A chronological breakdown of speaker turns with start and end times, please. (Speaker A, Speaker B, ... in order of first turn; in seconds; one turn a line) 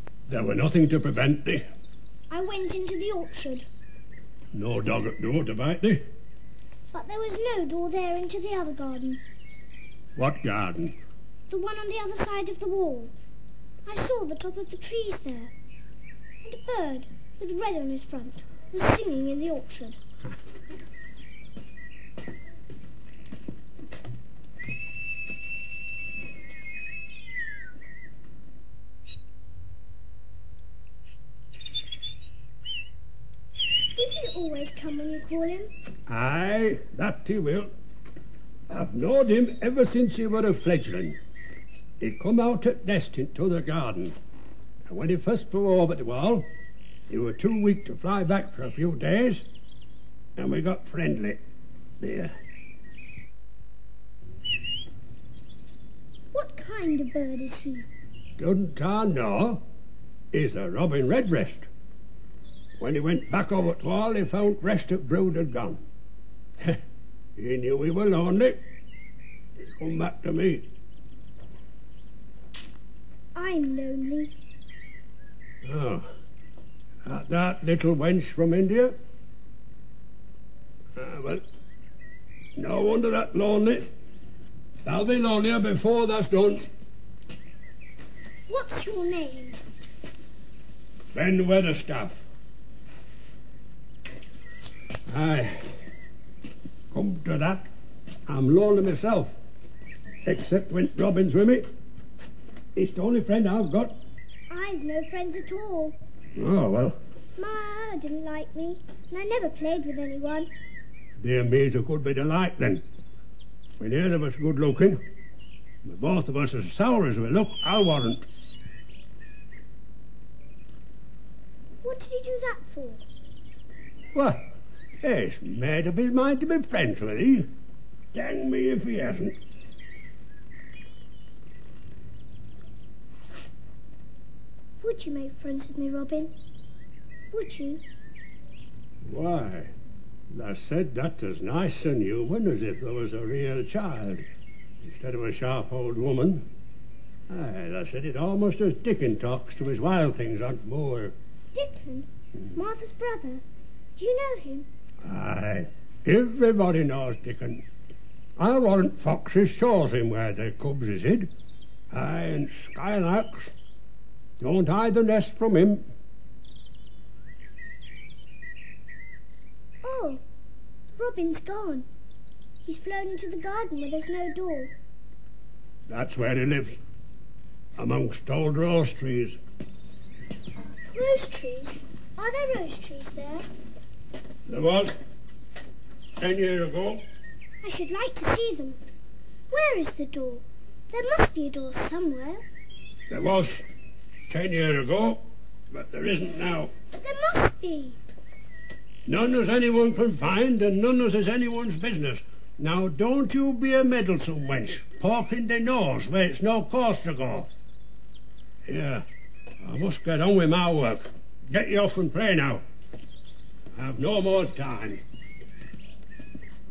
Speaker A: 0.3-1.6
Speaker B: 2.3-3.6
Speaker A: 4.5-6.0
Speaker B: 6.9-9.2
Speaker A: 10.2-10.9
Speaker B: 11.5-13.1
Speaker B: 13.8-15.5
Speaker B: 16.4-20.0
Speaker B: 34.0-35.7
Speaker A: 36.1-37.7
Speaker A: 38.7-41.2
Speaker A: 42.0-44.1
Speaker A: 44.8-46.5
Speaker A: 47.1-49.4
Speaker A: 50.4-51.4
Speaker A: 52.0-52.3
Speaker B: 56.3-57.9
Speaker A: 58.4-59.6
Speaker A: 60.3-61.7
Speaker A: 62.8-65.8
Speaker A: 67.3-68.6
Speaker A: 69.6-70.7
Speaker B: 73.3-74.3
Speaker A: 75.6-76.1
Speaker A: 77.0-78.9
Speaker A: 80.9-81.4
Speaker A: 82.5-83.9
Speaker A: 84.8-86.7
Speaker B: 88.5-89.6
Speaker A: 91.1-92.2
Speaker A: 95.1-95.8
Speaker A: 96.9-97.7
Speaker A: 98.3-99.4
Speaker A: 100.2-101.6
Speaker A: 102.7-103.9
Speaker B: 104.5-106.0
Speaker A: 106.3-107.0
Speaker B: 107.4-110.5
Speaker A: 111.2-112.8
Speaker A: 113.8-115.0
Speaker A: 115.8-118.2
Speaker B: 121.8-123.0
Speaker A: 124.1-124.4
Speaker A: 125.0-127.5
Speaker A: 128.1-129.4
Speaker B: 134.8-136.3
Speaker B: 137.3-137.8
Speaker A: 139.0-139.7
Speaker A: 140.3-144.2
Speaker A: 144.8-146.4
Speaker A: 147.3-151.1
Speaker B: 151.5-153.4
Speaker B: 154.0-154.7
Speaker A: 155.0-157.6
Speaker A: 158.4-161.3
Speaker A: 161.9-163.5
Speaker A: 164.4-165.8
Speaker B: 169.8-170.2
Speaker B: 170.9-171.8
Speaker B: 172.6-174.7
Speaker A: 175.9-176.8
Speaker A: 177.8-179.4
Speaker B: 180.9-183.4
Speaker A: 184.4-185.0
Speaker A: 186.2-187.0
Speaker B: 187.6-188.8
Speaker B: 189.5-192.4
Speaker A: 193.1-193.6
Speaker A: 194.3-196.7
Speaker B: 197.0-198.0
Speaker A: 199.1-207.5
Speaker A: 208.7-209.0
Speaker A: 209.6-212.6
Speaker A: 213.7-215.0